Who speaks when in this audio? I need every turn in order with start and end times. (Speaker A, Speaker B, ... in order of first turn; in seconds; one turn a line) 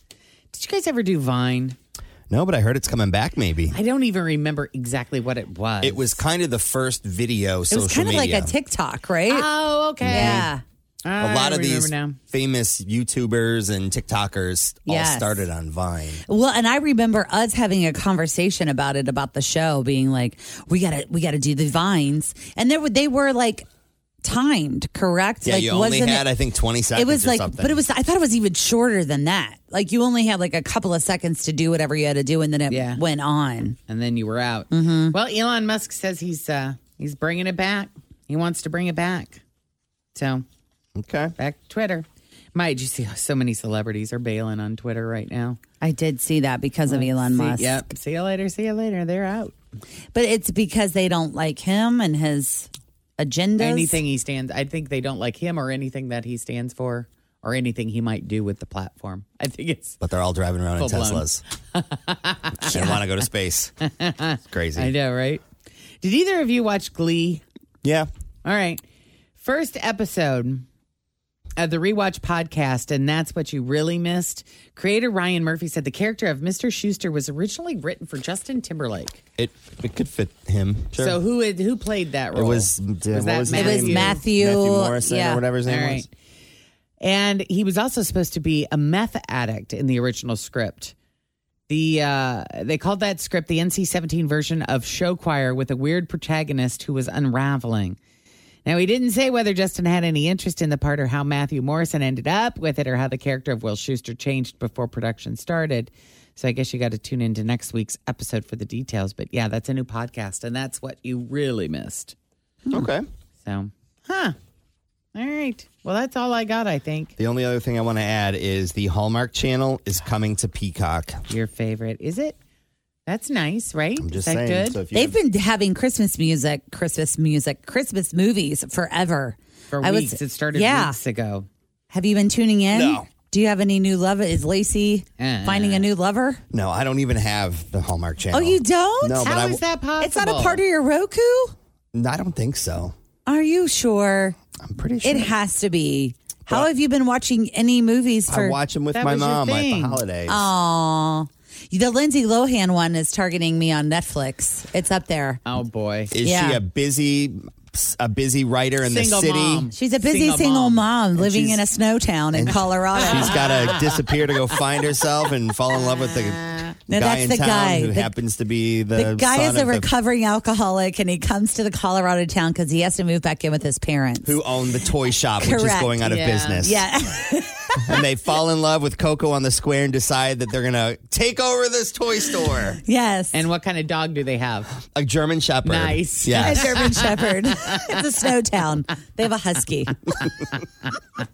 Speaker A: 0.5-1.8
Speaker B: 2.3-3.8
Speaker A: 3.7-6.2
Speaker B: 5.8-8.5
Speaker C: 7.7-9.5
Speaker A: 9.2-10.5
Speaker B: 10.0-10.5
Speaker C: 10.1-10.6
Speaker A: 11.0-12.2
Speaker B: 11.2-16.2
Speaker C: 14.8-15.5
Speaker C: 16.2-23.6
Speaker C: 24.2-26.3
Speaker B: 25.4-27.8
Speaker C: 26.9-33.8
Speaker A: 32.7-33.0
Speaker A: 33.9-39.4
Speaker C: 34.7-35.1
Speaker A: 40.1-40.4
Speaker B: 41.0-41.3
Speaker A: 41.4-45.6
Speaker C: 45.8-47.9
Speaker A: 46.9-49.5
Speaker C: 50.1-54.0
Speaker A: 53.6-60.0
Speaker B: 60.0-61.4
Speaker A: 60.8-63.0
Speaker B: 62.6-63.7
Speaker A: 63.9-65.4
Speaker B: 64.5-64.9
Speaker A: 66.0-67.4
Speaker B: 67.8-68.1
Speaker A: 68.4-68.8
Speaker A: 69.4-70.6
Speaker A: 71.6-79.2
Speaker B: 79.4-81.2
Speaker A: 80.9-84.2
Speaker B: 82.3-86.1
Speaker C: 83.5-85.4
Speaker A: 85.6-86.1
Speaker A: 87.0-90.9
Speaker A: 91.7-98.0
Speaker A: 98.6-112.1
Speaker B: 112.7-113.0
Speaker A: 113.4-114.3
Speaker A: 115.1-117.1
Speaker B: 117.2-121.2
Speaker A: 121.3-122.4
Speaker A: 123.0-124.8
Speaker B: 124.0-125.2
Speaker C: 124.9-131.0
Speaker A: 129.7-131.5
Speaker C: 131.9-136.4
Speaker B: 132.7-133.1
Speaker A: 135.2-135.9
Speaker B: 136.5-139.6
Speaker C: 138.3-139.4
Speaker A: 139.2-140.6
Speaker C: 140.0-141.5
Speaker B: 141.9-142.9
Speaker C: 143.2-144.3
Speaker B: 144.6-145.3
Speaker C: 145.0-148.6
Speaker B: 148.3-150.5
Speaker A: 148.9-150.0
Speaker C: 150.3-155.4
Speaker A: 155.4-156.1
Speaker B: 156.1-159.7
Speaker C: 156.2-156.6
Speaker A: 158.8-161.6
Speaker C: 159.7-163.5
Speaker B: 162.3-169.9
Speaker A: 163.0-163.7
Speaker A: 166.4-166.7
Speaker C: 166.9-168.1
Speaker C: 168.9-174.3
Speaker B: 174.2-176.8
Speaker C: 175.4-176.0
Speaker A: 176.0-176.7
Speaker C: 176.6-177.9
Speaker B: 177.8-182.8
Speaker C: 182.8-183.4
Speaker A: 183.3-184.7
Speaker B: 184.9-186.8
Speaker A: 185.6-187.1
Speaker C: 186.3-190.0